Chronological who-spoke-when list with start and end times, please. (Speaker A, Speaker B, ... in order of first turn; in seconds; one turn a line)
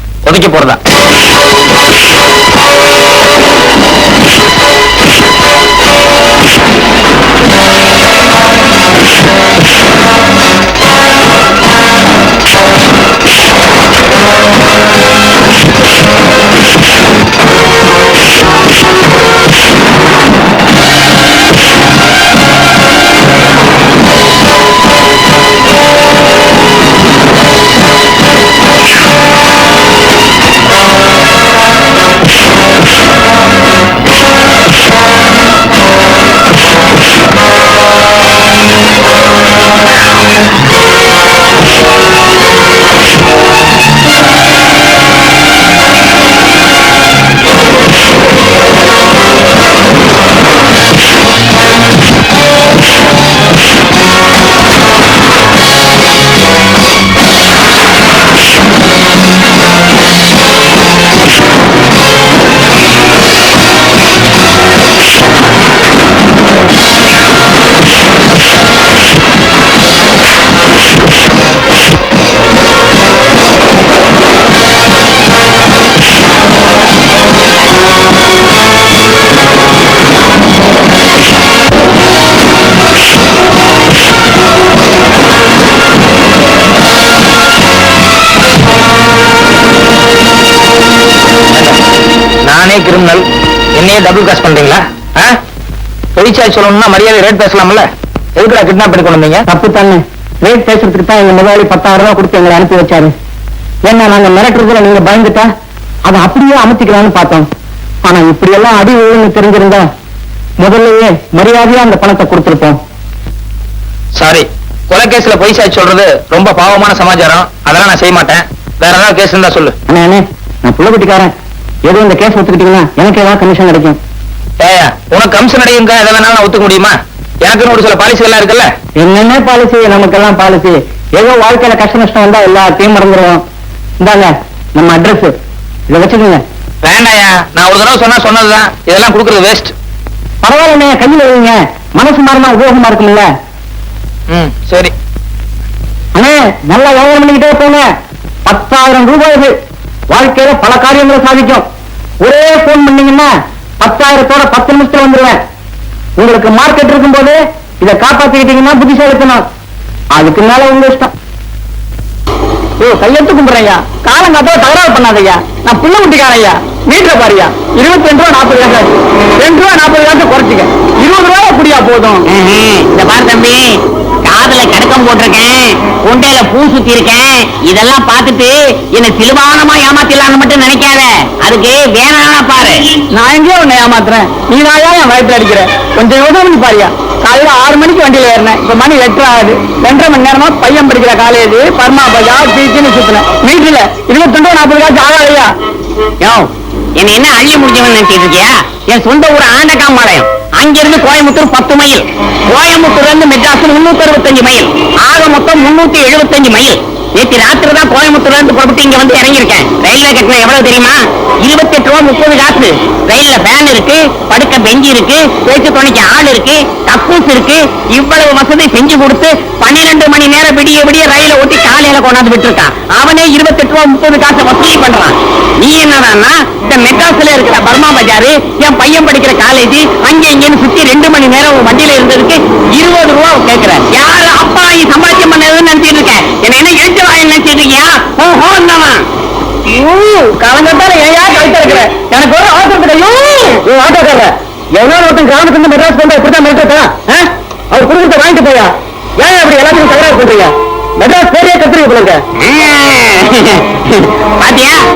Speaker A: 0.2-0.8
Speaker A: 91.5-91.8
Speaker A: 92.5-93.2
Speaker A: 93.8-95.4
Speaker A: 96.2-99.4
Speaker B: 99.5-103.1
Speaker B: 103.8-105.5
Speaker B: 106.1-107.5
Speaker B: 108.0-109.9
Speaker B: 110.6-112.8
Speaker A: 114.2-119.7
Speaker B: 119.9-121.3
Speaker B: 121.8-124.0
Speaker A: 124.6-126.9
Speaker A: 127.4-128.7
Speaker B: 129.0-133.4
Speaker B: 134.0-135.3
Speaker B: 135.9-136.4
Speaker A: 136.8-139.7
Speaker B: 140.4-143.3
Speaker A: 144.3-144.9
Speaker B: 146.2-147.8
Speaker B: 148.4-149.5
Speaker B: 150.1-151.6
Speaker B: 152.2-155.4
Speaker B: 156.2-159.4
Speaker B: 160.2-161.1
Speaker C: 162.8-168.9
Speaker C: 169.4-172.2
Speaker D: 172.3-182.8
Speaker C: 183.1-195.5
Speaker D: 196.2-196.5
Speaker D: 197.0-239.0
Speaker C: 239.7-243.6
Speaker B: 243.7-244.2
Speaker C: 244.8-246.5
Speaker B: 246.0-246.8
Speaker C: 247.7-252.2
Speaker D: 252.4-254.8